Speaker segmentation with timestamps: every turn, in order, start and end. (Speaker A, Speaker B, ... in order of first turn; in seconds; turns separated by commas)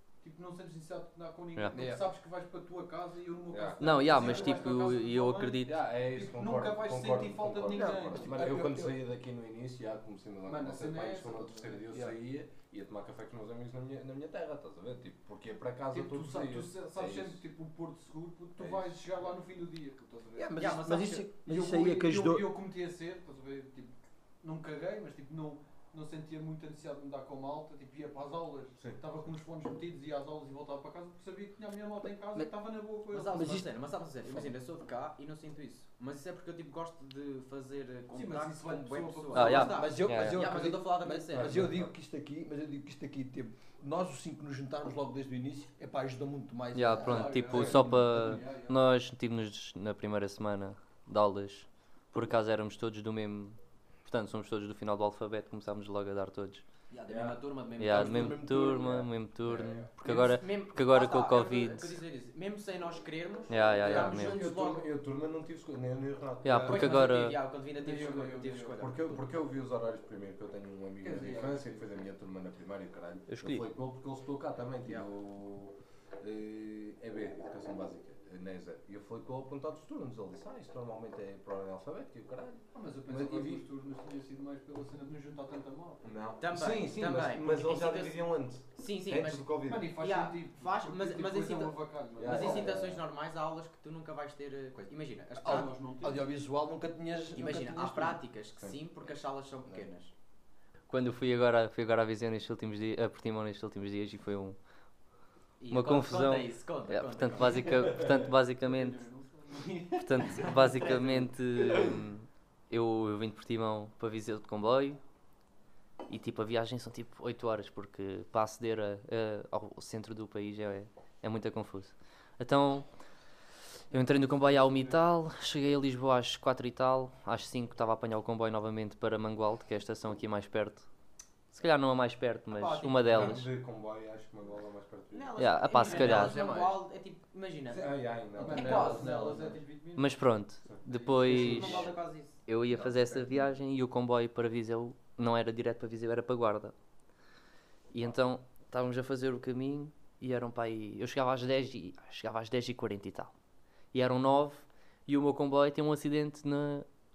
Speaker A: 0.2-8.5, Speaker B: 1.7-2.1, Speaker C: 3.5-4.0, Speaker D: 3.8-5.8, Speaker C: 5.6-17.4, Speaker B: 7.7-9.0, Speaker A: 10.4-11.8, Speaker A: 15.9-20.8, Speaker C: 18.6-18.9, Speaker B: 20.4-22.5, Speaker E: 20.6-21.3, Speaker A: 21.4-33.4, Speaker E: 33.1-41.7, Speaker B: 33.3-33.7, Speaker B: 34.2-34.5, Speaker A: 38.1-40.0, Speaker D: 39.3-40.4, Speaker B: 39.4-48.4, Speaker C: 41.3-41.9, Speaker D: 46.7-56.6, Speaker A: 47.0-48.8, Speaker C: 47.5-47.9, Speaker E: 56.9-58.4, Speaker B: 57.1-59.1, Speaker D: 57.8-62.0, Speaker C: 59.5-59.9, Speaker E: 60.0-64.9, Speaker D: 63.5-64.4, Speaker C: 63.8-67.1, Speaker D: 66.4-67.4, Speaker E: 66.7-69.2, Speaker A: 67.8-68.7, Speaker C: 68.8-83.6, Speaker A: 71.0-72.0, Speaker D: 73.3-73.7, Speaker A: 82.7-86.1, Speaker C: 86.0-89.9, Speaker E: 86.4-88.2, Speaker E: 88.7-95.7, Speaker A: 89.6-92.7, Speaker C: 92.2-93.0, Speaker B: 95.4-98.2, Speaker A: 95.4-96.3, Speaker E: 97.3-100.1, Speaker D: 100.9-104.6, Speaker E: 105.6-107.9, Speaker D: 105.7-109.0, Speaker A: 108.6-110.8, Speaker D: 110.0-115.0, Speaker E: 110.2-111.2, Speaker D: 116.1-122.9, Speaker A: 123.9-125.1, Speaker D: 123.9-130.9, Speaker D: 131.5-133.5, Speaker E: 132.5-133.4, Speaker C: 133.1-135.5, Speaker E: 135.1-137.9, Speaker D: 135.4-136.4, Speaker A: 135.7-136.4, Speaker B: 135.9-136.8, Speaker C: 137.7-139.1, Speaker A: 138.3-140.3, Speaker B: 138.5-139.6, Speaker E: 138.5-139.1, Speaker D: 140.0-141.9, Speaker A: 140.8-141.9, Speaker E: 141.2-142.4, Speaker D: 142.4-146.7, Speaker C: 142.7-143.3, Speaker D: 147.9-153.3, Speaker D: 153.9-156.8